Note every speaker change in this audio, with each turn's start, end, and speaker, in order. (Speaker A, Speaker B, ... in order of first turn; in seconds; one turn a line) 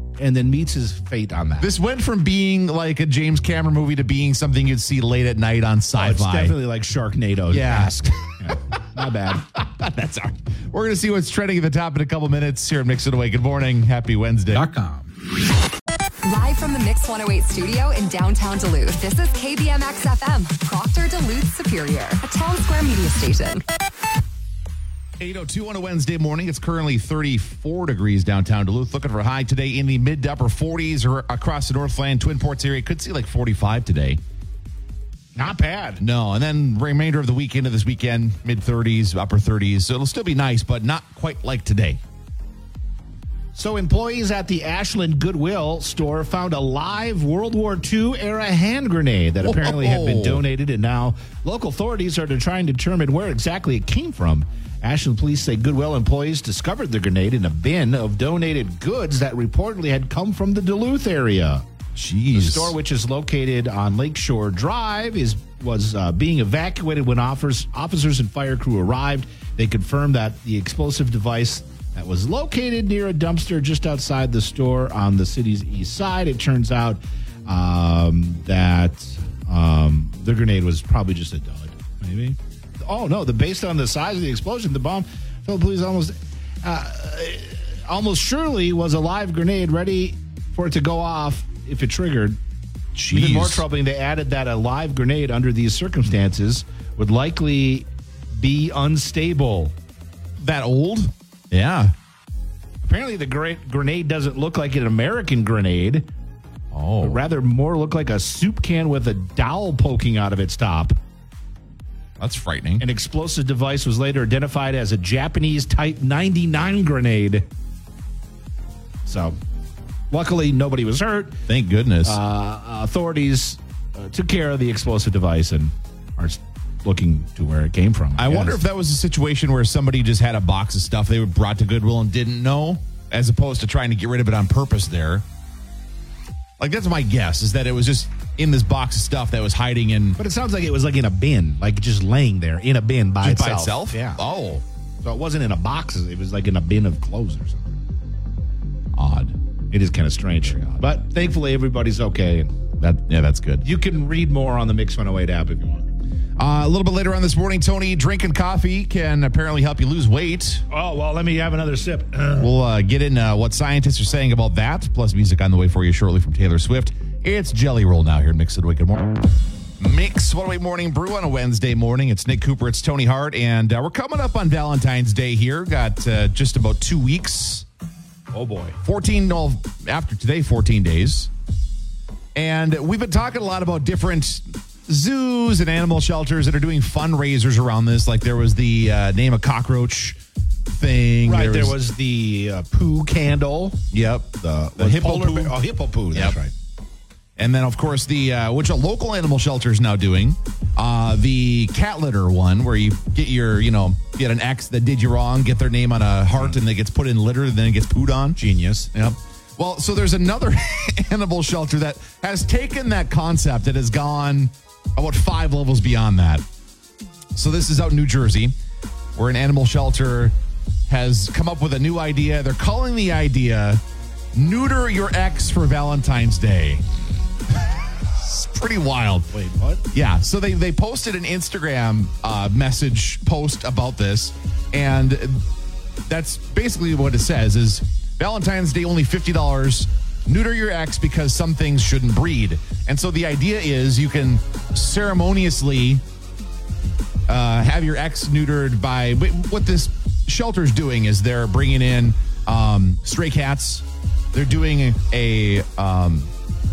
Speaker A: 0.2-1.7
Speaker B: 1.6-6.5
Speaker A: 5.9-9.5
Speaker B: 7.5-8.6
Speaker B: 9.4-14.7
Speaker A: 14.6-15.0
Speaker C: 16.2-23.6
Speaker B: 25.2-34.2
Speaker A: 35.4-36.0
Speaker B: 36.0-42.0
Speaker A: 43.5-61.6
Speaker B: 49.4-50.4
Speaker B: 61.9-62.7
Speaker A: 62.3-92.4
Speaker B: 92.9-93.6
Speaker A: 93.1-99.7
Speaker B: 100.4-101.9
Speaker A: 102.8-106.1
Speaker B: 106.7-107.2
Speaker A: 107.0-111.0
Speaker B: 112.2-112.8
Speaker A: 112.8-117.5
Speaker A: 119.0-119.4
Speaker A: 120.1-121.4
Speaker B: 121.5-122.2
Speaker A: 122.0-128.6
Speaker B: 128.2-135.2
Speaker B: 136.6-140.2
Speaker A: 140.2-144.2
Speaker B: 143.2-144.6
Speaker A: 145.0-147.8
Speaker B: 148.9-149.4
Speaker A: 149.7-152.6
Speaker B: 152.8-153.6
Speaker A: 153.6-155.9
Speaker B: 156.4-160.6
Speaker A: 160.7-162.5
Speaker B: 162.4-177.7
Speaker A: 178.3-178.8
Speaker B: 178.8-181.3
Speaker B: 182.3-191.8
Speaker A: 191.2-193.8
Speaker B: 193.9-195.6
Speaker A: 194.4-196.5
Speaker B: 197.4-208.4
Speaker A: 208.4-208.9
Speaker B: 208.9-216.4
Speaker B: 217.3-218.5
Speaker B: 219.1-220.3
Speaker B: 220.9-223.8
Speaker B: 224.3-226.8
Speaker B: 227.5-229.3
Speaker A: 229.3-229.8
Speaker B: 229.9-235.4
Speaker B: 236.1-246.0
Speaker B: 247.3-256.3